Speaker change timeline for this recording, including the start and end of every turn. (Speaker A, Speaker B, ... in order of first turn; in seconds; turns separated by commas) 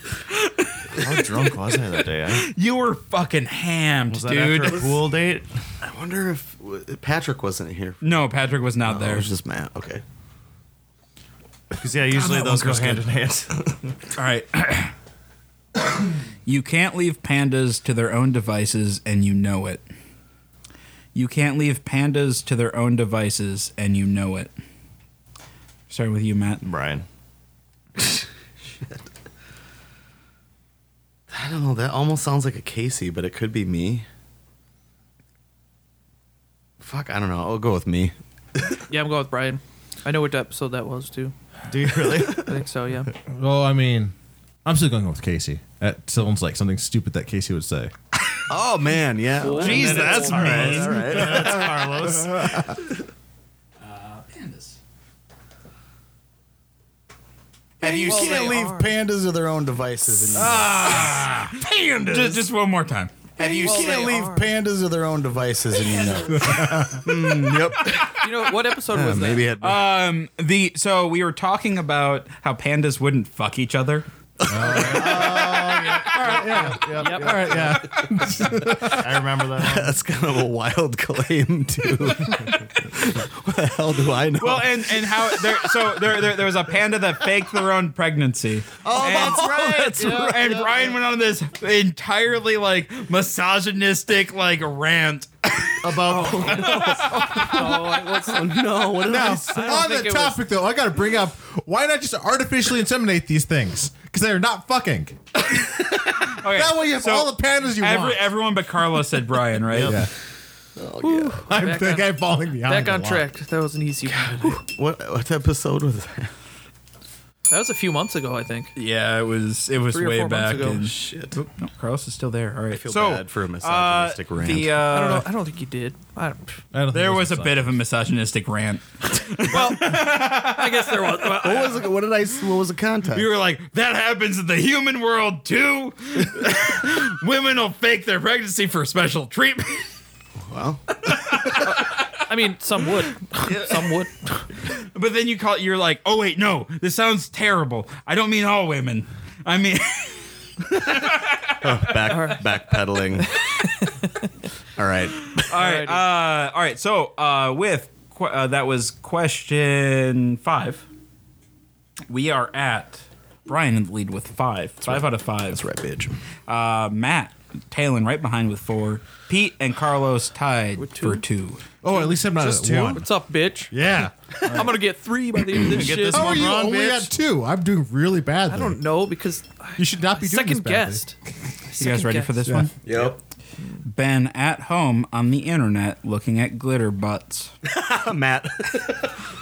Speaker A: 0.4-1.2, Speaker B: 0.9-2.5, Speaker A: 2.3-5.0, Speaker B: 4.1-5.5, Speaker C: 5.8-8.1, Speaker A: 8.0-9.3, Speaker C: 8.8-10.0, Speaker B: 11.7-13.8, Speaker D: 12.2-13.0, Speaker A: 14.2-14.9, Speaker A: 16.4-19.8, Speaker A: 21.1-24.5, Speaker A: 25.9-26.6, Speaker B: 26.6-27.0, Speaker C: 31.3-34.0, Speaker C: 36.8-38.7, Speaker E: 38.9-41.3, Speaker B: 41.7-42.5, Speaker C: 42.0-42.5, Speaker E: 42.3-43.1, Speaker D: 43.3-47.9, Speaker C: 48.5-51.8, Speaker E: 49.4-50.8, Speaker A: 49.5-51.0, Speaker B: 49.6-52.8, Speaker D: 51.3-52.7, Speaker A: 53.8-54.8, Speaker A: 57.8-58.6, Speaker C: 57.8-62.5, Speaker E: 57.9-58.9, Speaker A: 60.3-64.1, Speaker D: 60.4-61.3, Speaker C: 63.4-68.2, Speaker E: 63.4-64.5, Speaker D: 66.3-67.1, Speaker A: 67.2-68.2, Speaker E: 68.1-69.5, Speaker C: 68.9-69.9, Speaker A: 69.6-74.0, Speaker C: 74.4-76.4, Speaker D: 74.5-79.2, Speaker B: 74.8-75.1, Speaker B: 76.0-77.8, Speaker E: 77.0-77.4, Speaker B: 78.8-80.0, Speaker C: 79.6-85.5, Speaker A: 84.4-97.6, Speaker C: 88.8-90.7, Speaker B: 88.9-90.8, Speaker B: 95.8-96.8, Speaker C: 96.1-99.9, Speaker E: 96.1-100.4, Speaker D: 99.0-108.3, Speaker A: 106.0-110.0, Speaker B: 109.7-110.1, Speaker D: 109.8-110.1, Speaker C: 110.8-111.6, Speaker E: 111.0-114.6, Speaker D: 111.5-113.2, Speaker C: 114.0-116.3, Speaker E: 117.5-118.7, Speaker A: 118.7-125.2, Speaker E: 119.9-120.8, Speaker C: 120.7-121.4, Speaker C: 122.7-124.8, Speaker E: 124.9-126.6, Speaker D: 126.7-127.7, Speaker A: 126.9-131.7, Speaker E: 129.5-131.8, Speaker C: 131.2-133.3, Speaker A: 133.1-139.9, Speaker C: 140.5-141.2, Speaker A: 141.0-142.1, Speaker E: 141.7-144.5, Speaker A: 143.4-143.9, Speaker A: 144.6-152.0, Speaker C: 151.6-153.3, Speaker E: 152.1-152.5, Speaker E: 153.2-154.3, Speaker C: 154.8-155.5, Speaker A: 155.2-160.8, Speaker E: 155.5-156.0, Speaker A: 162.1-165.6, Speaker C: 164.8-166.2, Speaker A: 166.5-171.6, Speaker E: 170.8-171.2, Speaker D: 171.8-173.1, Speaker E: 171.8-173.7, Speaker D: 173.7-174.8, Speaker E: 174.4-176.5, Speaker B: 175.7-177.1, Speaker D: 176.1-178.8, Speaker E: 178.5-181.2, Speaker D: 179.8-181.0, Speaker E: 181.7-182.4, Speaker A: 181.8-182.7, Speaker C: 182.8-183.2, Speaker A: 183.8-187.5, Speaker C: 187.7-189.1